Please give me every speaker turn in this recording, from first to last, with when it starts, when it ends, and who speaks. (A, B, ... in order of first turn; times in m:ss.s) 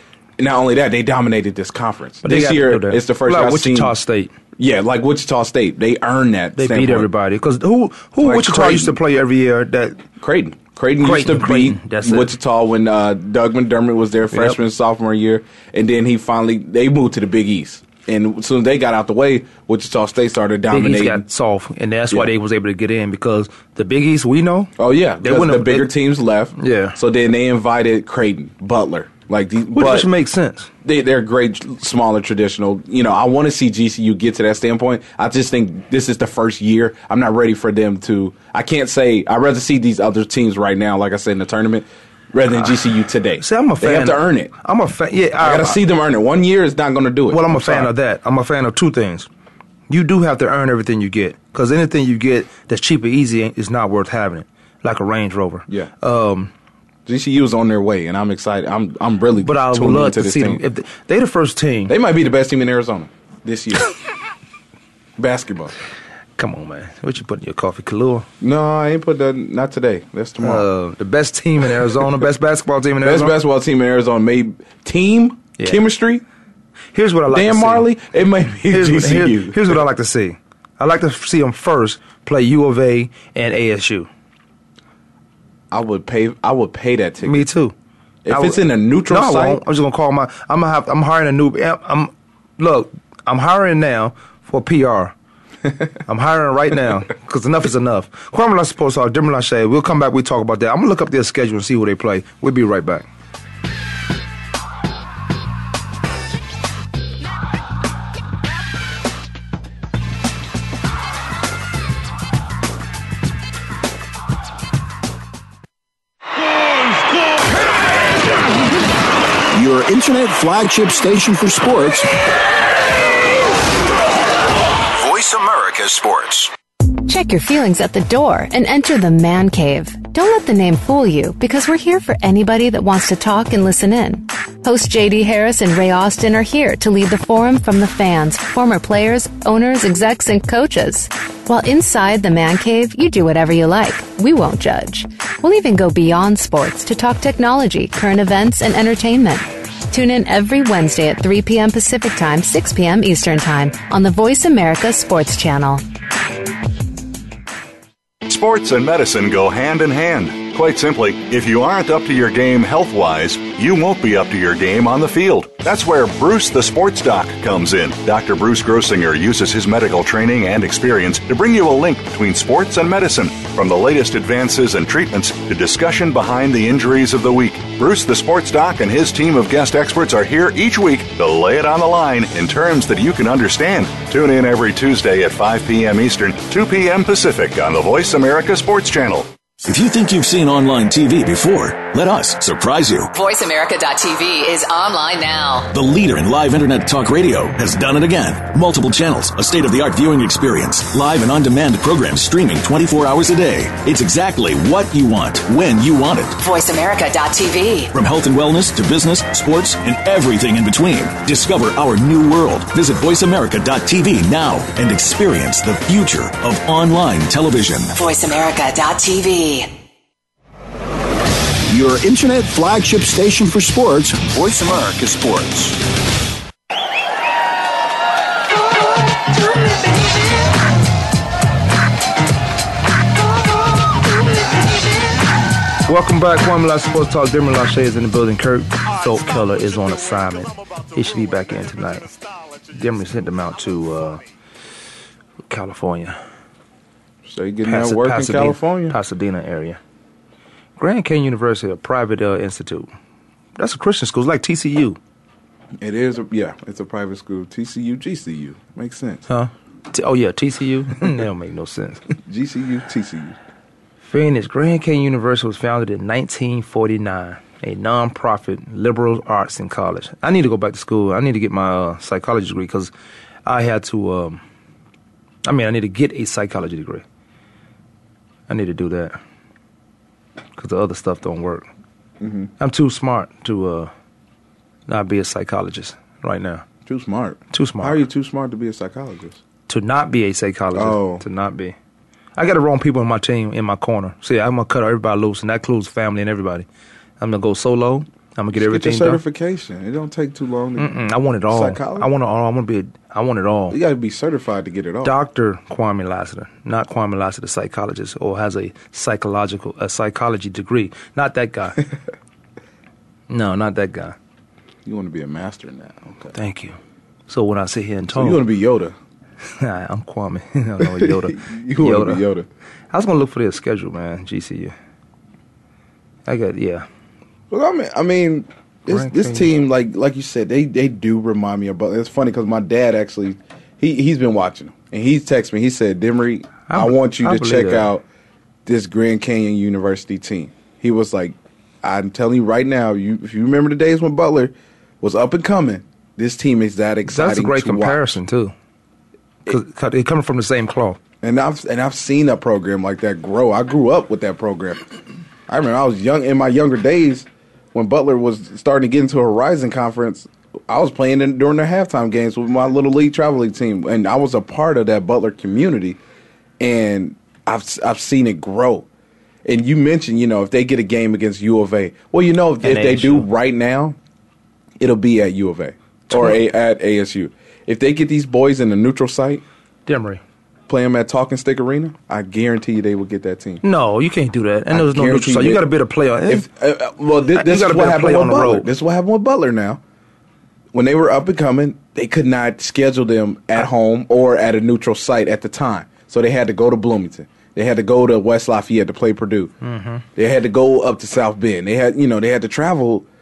0:00.4-0:03.9 A
0:02.2-0:04.3 B
0:04.6-0:07.1 A
0:06.6-0:10.0 B
0:08.2-0:09.0 A
0:10.2-0:21.2 A
0:11.0-0:12.3 B
0:14.3-0:14.6 B
0:20.7-0:25.9 B
0:24.8-0:30.1 A
0:26.6-0:27.0 B
0:29.7-0:30.7 B
0:30.8-0:44.5 A
0:43.4-0:45.8 B
0:45.4-0:47.9 A
0:47.3-0:49.3 B
0:49.9-0:56.5 B
0:57.0-1:00.6 A
0:59.4-1:01.9 B
1:01.9-1:03.9 A
1:05.2-1:05.7 A
1:06.4-1:08.3 B
1:08.4-1:10.7 A
1:10.4-1:13.3 B
1:13.0-1:16.2 A
1:15.6-1:15.8 B
1:16.9-1:17.9 B
1:17.3-1:19.8 A
1:18.7-1:24.1 B
1:25.7-1:27.5 A
1:27.2-1:27.7 B
1:28.2-1:29.6 A
1:28.3-1:35.1 B
1:36.1-1:43.0 B
1:59.5-2:02.1 C
2:04.9-2:06.5 D
2:07.0-2:35.8 E
2:38.2-3:09.3 F
3:09.6-3:13.1 D
3:13.1-3:15.7 G
3:15.7-3:26.4 D
3:26.4-3:27.9 G
3:27.9-3:37.9 D
3:37.9-3:39.7 G
3:41.7-3:45.7 C
3:55.8-4:02.2 B
4:02.7-4:04.2 B
4:05.5-4:06.2 B
4:07.2-4:09.0 A
4:07.6-4:09.8 B
4:10.8-4:12.9 B
4:13.6-4:15.0 B
4:15.8-4:19.2 A
4:19.3-4:22.0 B
4:22.2-4:23.4 A
4:24.0-4:32.9 B
4:33.4-4:34.4 B
4:35.4-4:37.0 B
4:38.5-4:39.2 B
4:40.6-4:41.7 B
4:42.2-4:42.5 A
4:42.6-4:43.9 B
4:44.9-4:46.6 B
4:46.8-4:49.4 A
4:47.5-4:48.0 B
4:49.7-4:51.7 B
4:50.7-4:51.2 A
4:52.4-4:56.7 B
4:57.2-4:59.2 B
4:58.5-5:00.9 A
5:00.8-5:03.8 B
5:01.5-5:02.1 A
5:03.7-5:05.2 A
5:05.0-5:11.8 B
5:13.3-5:14.2 B
5:14.8-5:16.3 A
5:16.3-5:16.8 B
5:17.3-5:18.4 B
5:18.1-5:18.9 A
5:19.6-5:22.2 B
5:20.8-5:22.5 A
5:22.9-5:24.7 B
5:26.2-5:26.8 B
5:27.5-5:38.0 A
5:28.9-5:29.5 B
5:36.7-5:37.9 B
5:38.6-5:48.1 A
5:47.1-5:48.5 B
5:49.5-5:51.0 B
5:51.2-5:54.8 A
5:55.5-6:06.0 A
6:06.6-6:08.8 A
6:09.4-6:14.0 A
6:12.6-6:13.3 B
6:14.8-6:19.4 A
6:16.1-6:16.4 B
6:19.9-6:20.2 B
6:20.7-6:23.6 A
6:23.6-6:26.5 B
6:24.7-6:25.7 A
6:26.2-6:29.8 A
6:27.3-6:28.7 B
6:30.7-6:39.5 A
6:39.6-6:40.0 B
6:40.2-6:43.1 A